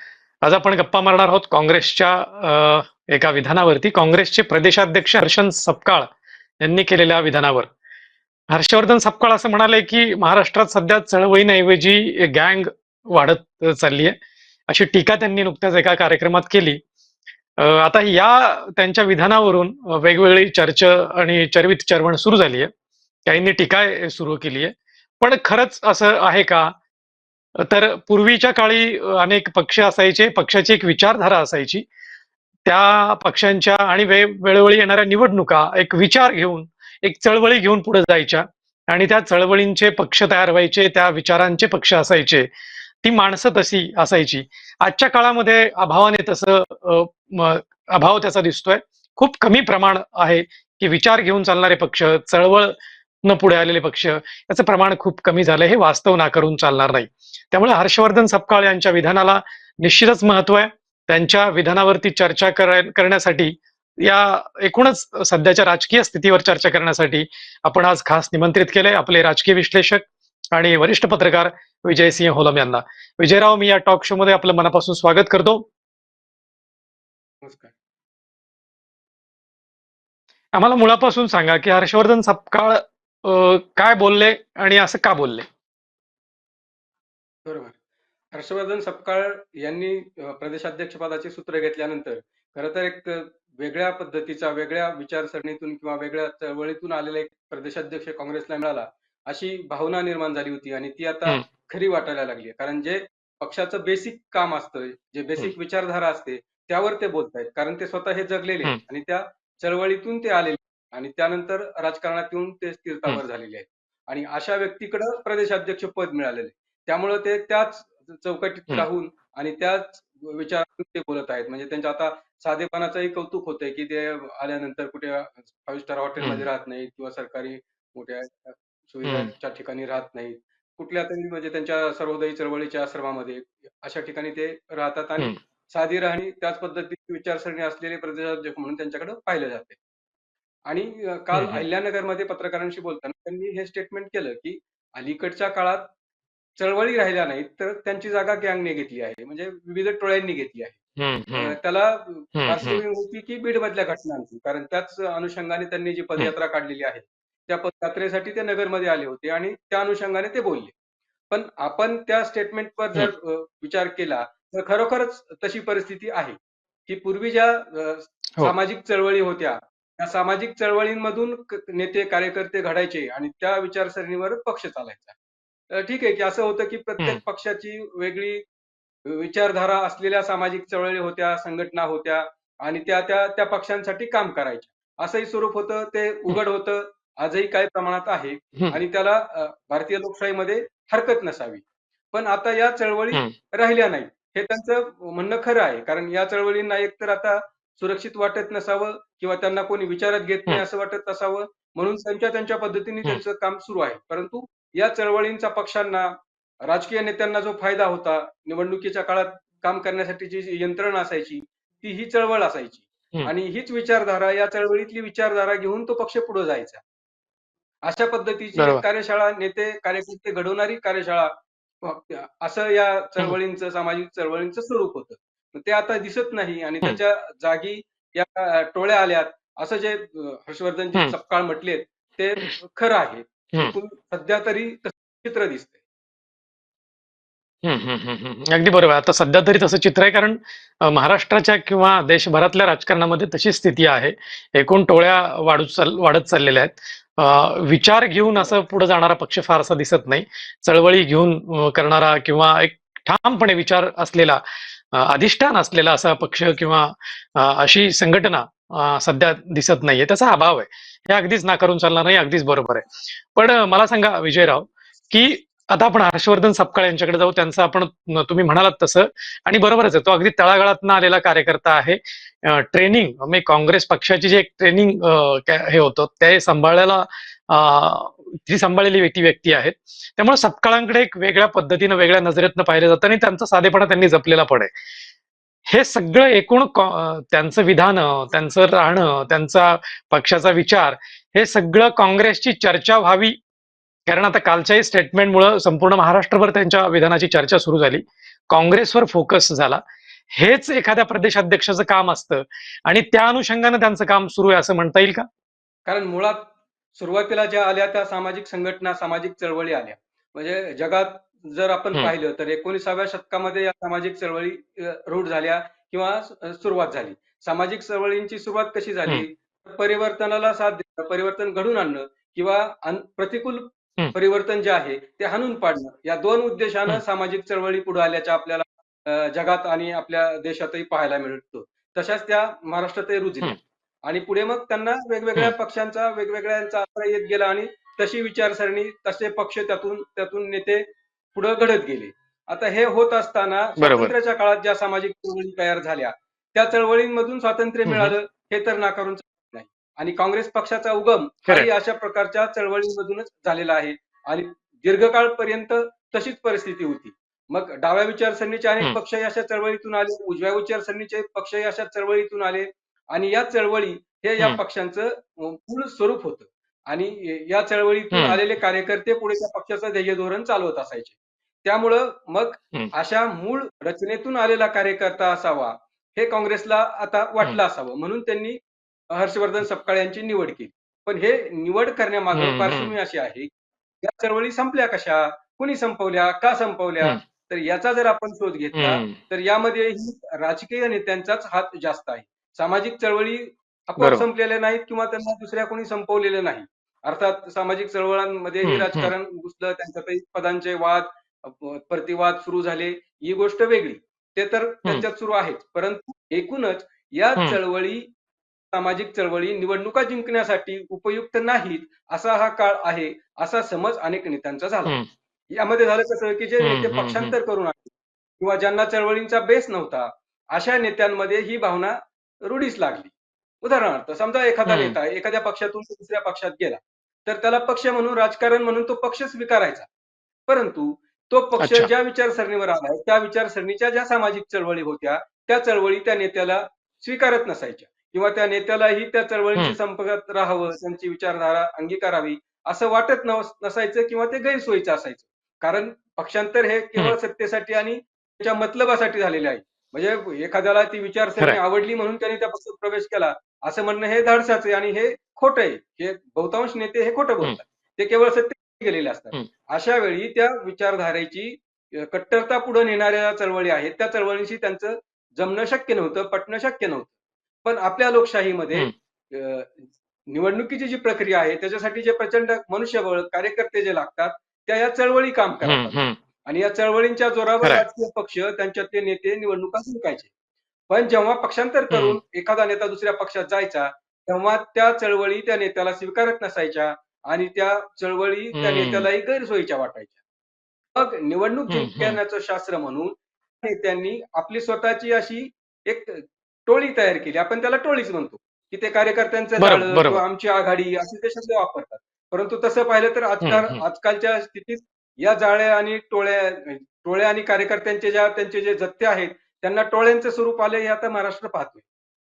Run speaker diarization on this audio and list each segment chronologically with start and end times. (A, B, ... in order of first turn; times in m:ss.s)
0:00.4-0:06.1 A
0:06.6-0:07.7 A
0:08.5-0:14.2 A
0:14.7-0:16.8 A
0:17.6-0:22.7 A
0:23.3-0:26.7 A
0:27.7-0:31.8 A
0:32.7-0:42.5 A
0:43.0-0:52.8 A
0:53.3-1:15.7 A
1:17.4-1:17.7 B
1:20.5-1:25.5 A
1:27.4-1:27.8 B
1:28.3-2:19.8 B
2:09.0-2:09.3 A
2:20.7-2:25.9 B
2:21.3-2:21.6 A
2:26.6-2:30.8 B
2:31.0-2:31.6 A
2:31.3-2:40.7 B
2:32.4-2:32.8 A
2:41.3-2:55.2 B
2:55.7-2:58.4 B
2:59.1-3:26.1 B
3:26.6-3:36.8 B
3:37.8-3:55.8 B
3:38.6-3:38.8 A
3:57.6-4:14.4 A
4:14.9-4:44.7 A
4:45.7-4:53.4 A
4:54.1-5:05.3 A
5:05.9-6:18.6 B
5:43.8-5:44.1 A
5:47.8-5:48.2 A
6:08.1-6:08.4 A
6:19.1-6:23.5 B
6:22.3-6:23.0 A
6:24.0-6:48.1 B
6:28.7-6:29.2 A
6:34.0-6:34.2 A
6:38.6-6:39.1 A
6:48.7-6:55.0 B
6:55.5-7:09.9 B
6:56.6-6:57.4 A
7:04.7-7:05.0 A
7:10.5-7:47.1 B
7:11.6-7:11.9 A
7:47.6-8:00.3 B
7:55.6-7:56.2 A
8:00.9-8:10.2 B
8:01.9-8:02.2 A
8:08.6-8:09.1 A
8:11.0-8:31.8 B
8:11.7-8:12.2 A
8:19.6-8:20.2 A
8:23.4-8:23.8 A